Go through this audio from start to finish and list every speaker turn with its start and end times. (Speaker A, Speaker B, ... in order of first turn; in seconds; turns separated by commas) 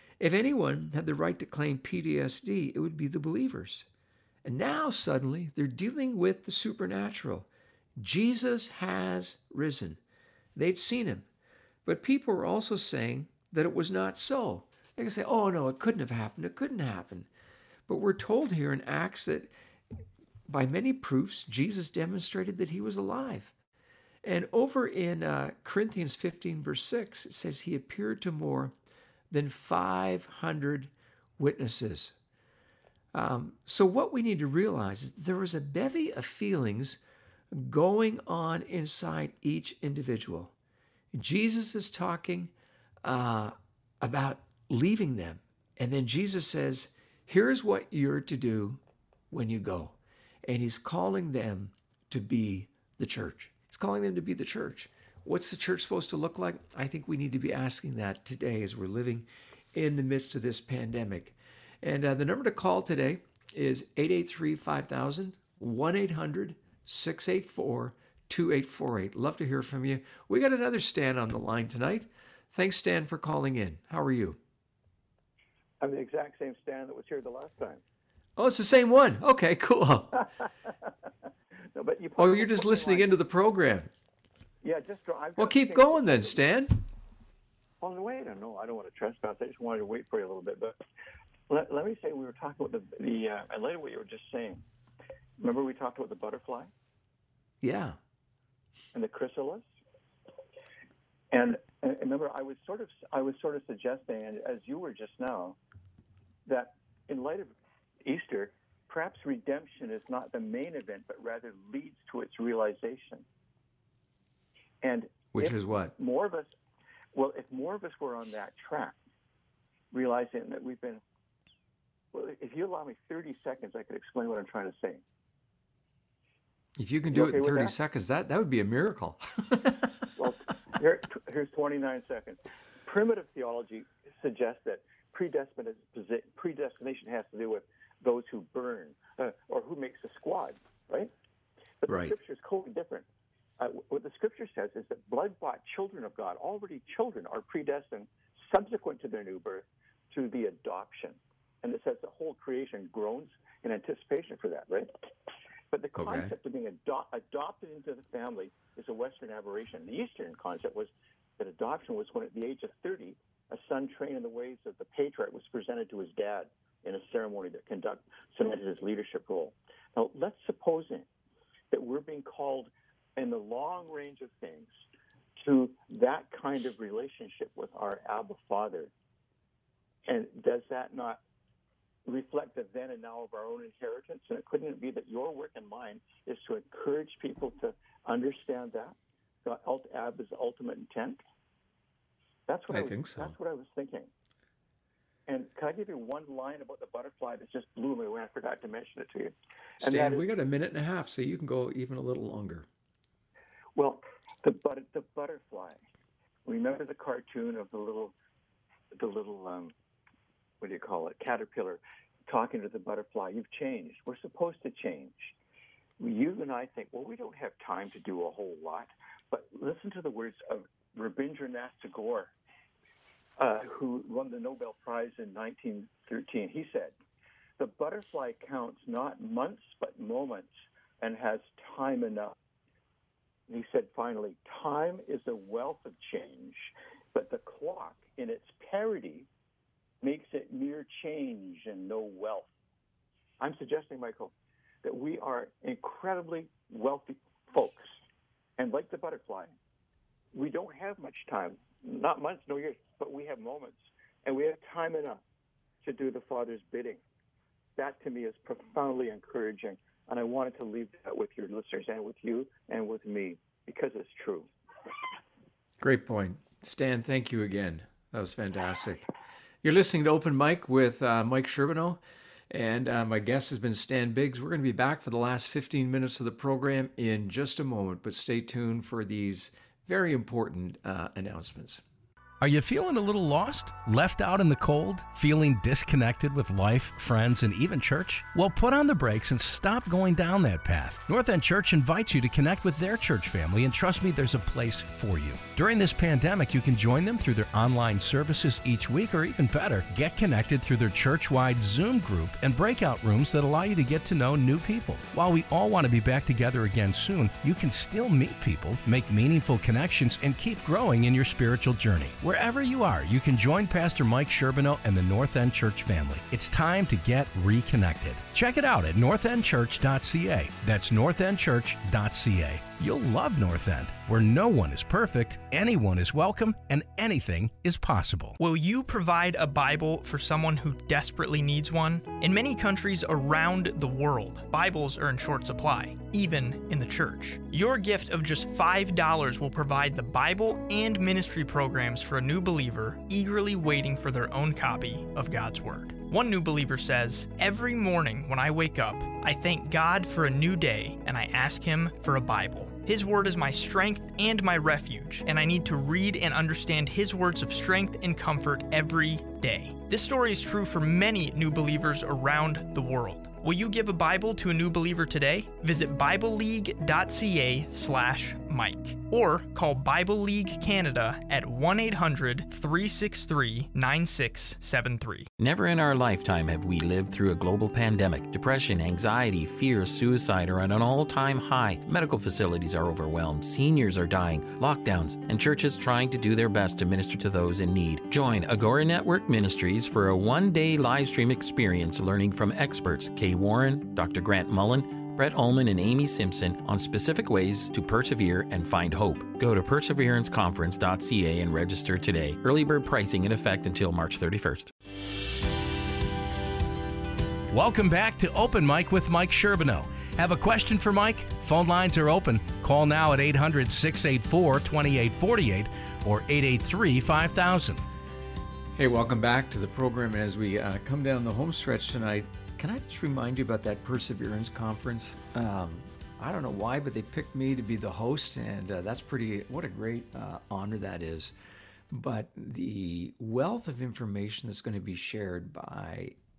Speaker A: 0.2-3.9, Speaker A: 4.4-10.0, Speaker A: 10.6-11.3, Speaker A: 11.8-17.3, Speaker A: 17.9-19.5, Speaker A: 20.5-23.5, Speaker A: 24.2-28.7, Speaker A: 29.3-32.1, Speaker A: 33.1-40.5, Speaker A: 41.1-42.5, Speaker A: 43.0-74.4, Speaker B: 75.8-77.8, Speaker A: 78.4-80.2, Speaker B: 81.7-83.1, Speaker A: 82.2-83.9, Speaker B: 84.6-86.4, Speaker A: 85.4-86.8, Speaker B: 87.8-90.8, Speaker B: 91.5-94.6, Speaker B: 95.4-96.7, Speaker A: 97.6-98.0, Speaker B: 98.9-99.7, Speaker B: 101.3-105.6, Speaker B: 106.5-113.2, Speaker B: 114.8-116.5, Speaker A: 115.3-115.9, Speaker B: 117.1-119.0, Speaker B: 119.9-121.0, Speaker B: 122.1-125.0, Speaker A: 126.8-130.0, Speaker B: 127.1-127.7, Speaker B: 130.2-141.1, Speaker B: 141.8-143.1, Speaker A: 141.9-142.1, Speaker B: 143.6-155.0, Speaker B: 155.7-171.1, Speaker A: 156.0-156.3, Speaker B: 171.7-174.7, Speaker B: 175.4-178.9, Speaker B: 180.1-181.2, Speaker B: 182.1-191.2, Speaker B: 192.5-194.1, Speaker A: 192.7-193.3, Speaker B: 195.3-200.2, Speaker A: 199.8-202.7, Speaker B: 203.8-205.8, Speaker B: 206.4-208.1, Speaker B: 208.9-209.7, Speaker B: 210.6-215.3, Speaker B: 216.0-222.3, Speaker B: 223.4-226.9, Speaker B: 227.6-232.3, Speaker B: 233.5-239.3, Speaker B: 240.0-242.5, Speaker B: 243.4-247.9, Speaker B: 248.6-249.5, Speaker B: 250.3-255.2, Speaker B: 255.8-257.0, Speaker B: 257.8-264.5, Speaker A: 265.8-269.1, Speaker A: 269.6-281.8, Speaker C: 282.4-328.4, Speaker D: 328.4-375.3, Speaker E: 375.4-404.7, Speaker C: 407.5-417.8, Speaker A: 418.8-431.3, Speaker A: 431.9-436.1